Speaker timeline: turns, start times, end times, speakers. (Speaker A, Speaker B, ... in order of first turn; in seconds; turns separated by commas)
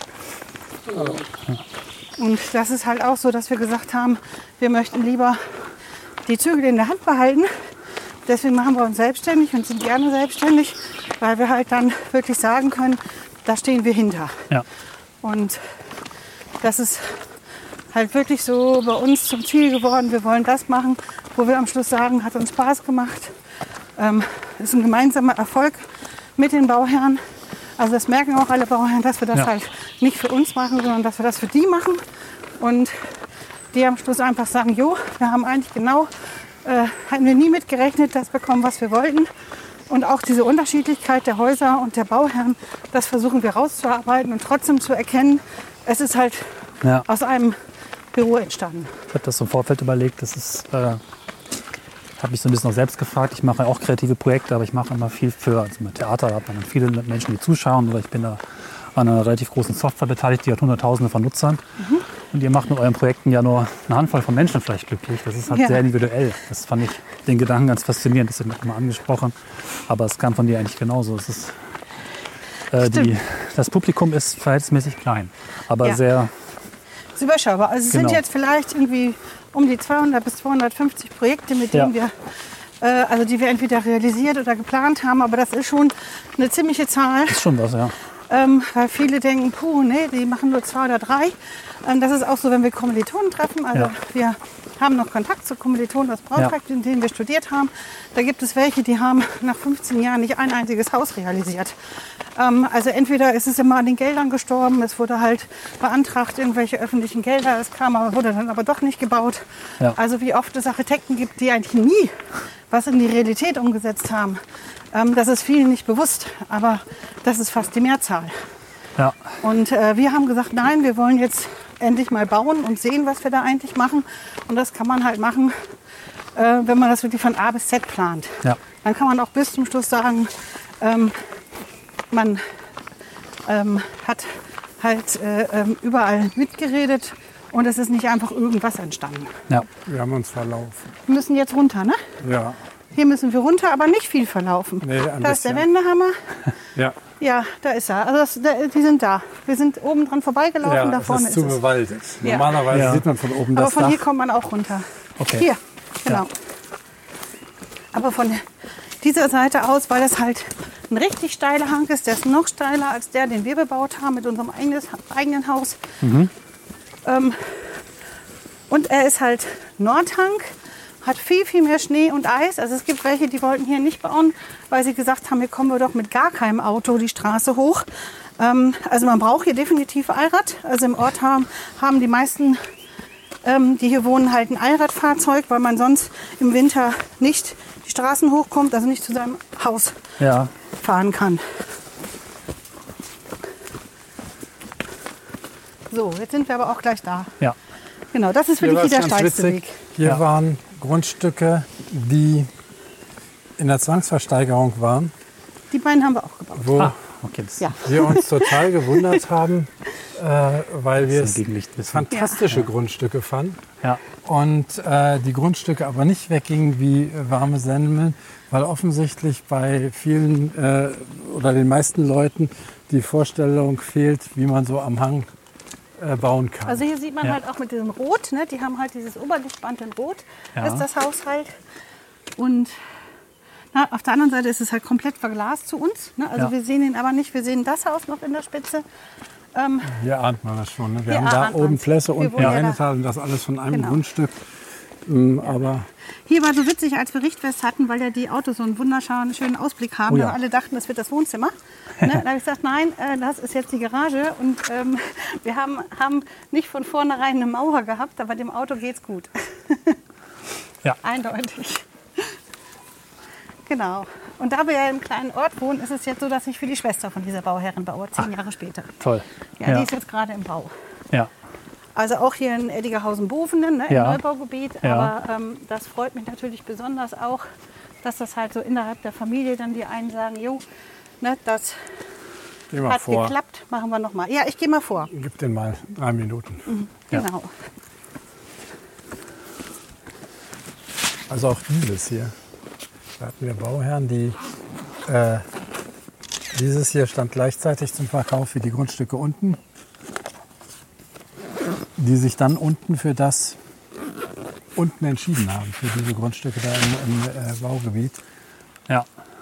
Speaker A: 2.2-5.5, Speaker A: 6.2-7.5, Speaker A: 8.2-14.5, Speaker A: 15.2-15.8, Speaker A: 16.6-17.2, Speaker A: 17.9-23.4, Speaker A: 24.0-27.2, Speaker A: 27.8-32.0, Speaker A: 32.6-33.2, Speaker A: 33.7-39.3, Speaker A: 39.9-47.6, Speaker A: 48.1-49.0, Speaker B: 49.1-51.0, Speaker B: 52.2-61.6, Speaker A: 61.8-62.0, Speaker B: 62.3-71.6, Speaker A: 65.5-65.8, Speaker B: 72.7-76.3, Speaker A: 72.8-73.1, Speaker A: 77.2-87.4, Speaker B: 77.9-78.2, Speaker B: 87.3-87.9, Speaker A: 88.3-101.8, Speaker A: 102.3-118.4, Speaker B: 119.0-119.2, Speaker A: 119.4-125.7, Speaker A: 126.3-131.2, Speaker A: 132.1-132.5, Speaker A: 133.4-139.4, Speaker C: 139.8-140.9, Speaker A: 141.1-142.1, Speaker C: 142.2-142.6, Speaker A: 142.9-146.4, Speaker C: 144.8-145.7, Speaker A: 147.2-151.6, Speaker C: 150.6-154.0, Speaker A: 152.2-152.7, Speaker B: 152.7-153.0, Speaker A: 153.5-156.3, Speaker B: 155.2-155.4, Speaker A: 157.9-158.4, Speaker A: 159.0-165.8, Speaker B: 166.0-166.3, Speaker A: 167.0-167.8, Speaker A: 168.7-177.9, Speaker A: 178.4-182.6, Speaker A: 183.4-190.0, Speaker B: 190.2-190.5, Speaker A: 190.7-191.6, Speaker A: 195.9-197.3, Speaker A: 198.1-199.8, Speaker C: 198.6-202.5, Speaker C: 203.6-205.1, Speaker A: 205.7-206.9, Speaker C: 206.6-206.9, Speaker B: 206.8-207.7, Speaker A: 207.6-209.1, Speaker C: 207.8-213.6, Speaker B: 211.0-212.7, Speaker A: 212.1-212.4, Speaker C: 214.2-225.3, Speaker C: 226.0-226.8, Speaker A: 226.7-231.5, Speaker B: 230.6-230.8, Speaker A: 232.4-232.7, Speaker A: 233.7-238.8, Speaker A: 239.5-239.9, Speaker C: 239.9-244.4, Speaker A: 241.1-242.8, Speaker A: 243.7-244.0, Speaker C: 245.0-245.9, Speaker A: 246.2-260.0, Speaker A: 261.0-262.4, Speaker A: 263.7-268.9, Speaker B: 269.0-269.9, Speaker A: 269.6-270.7, Speaker A: 271.9-277.4, Speaker B: 273.9-274.2, Speaker B: 274.8-275.1, Speaker A: 278.0-280.6, Speaker A: 281.2-281.8, Speaker C: 282.7-283.3, Speaker A: 282.9-285.1, Speaker C: 285.1-286.7, Speaker A: 286.7-287.5, Speaker C: 291.3-292.3, Speaker C: 293.2-294.4, Speaker C: 295.0-295.4, Speaker C: 296.5-299.6, Speaker C: 302.0-303.6, Speaker C: 304.7-308.2